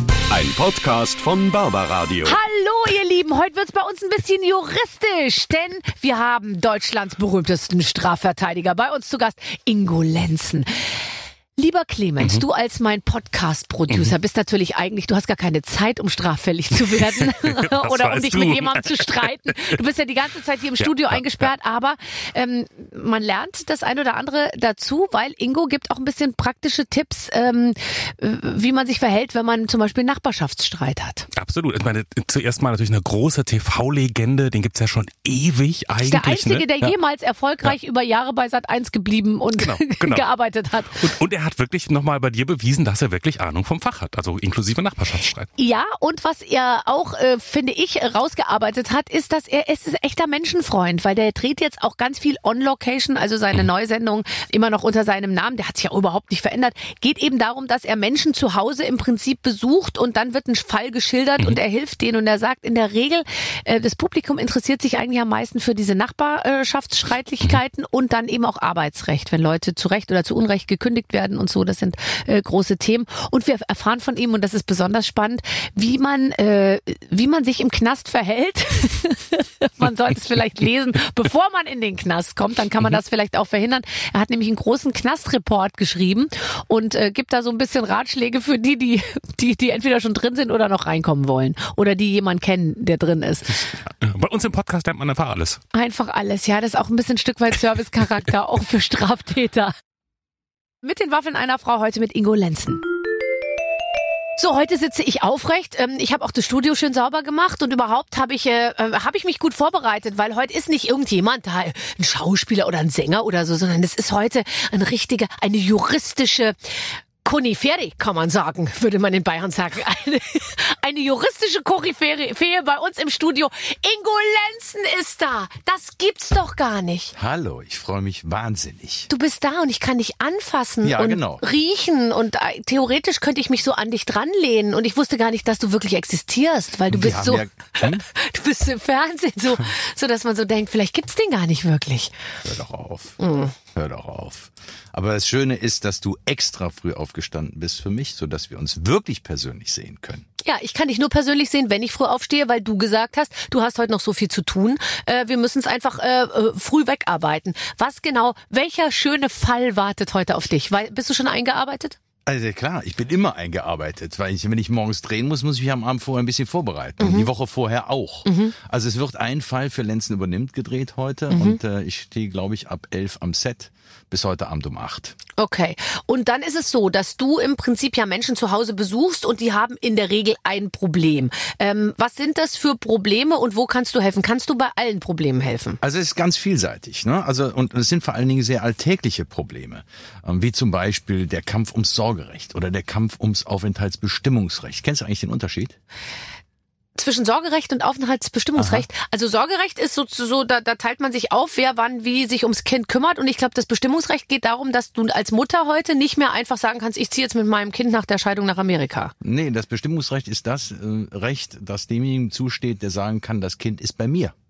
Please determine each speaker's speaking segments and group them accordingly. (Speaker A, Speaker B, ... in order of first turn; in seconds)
Speaker A: 0.3-2.4
Speaker B: 2.2-11.0, 11.6-31.3, 36.0-41.1, 45.6-93.7, 95.7-99.7, 100.8-102.8, 104.4-127.1, 129.1-142.1, 143.2-143.5, 150.4-162.0, 167.0-167.3, 168.2-168.5, 171.3-171.6, 175.4-185.8, 196.9-209.1
Speaker C: 17.3-19.3, 20.8-21.5, 31.3-36.9, 39.5-40.3, 40.9-45.5, 94.0-95.6
Speaker D: 127.1-129.1, 130.8-131.4, 136.9-138.1, 142.4-150.2, 162.2-175.2, 185.8-195.8, 198.6-198.8, 209.2-214.3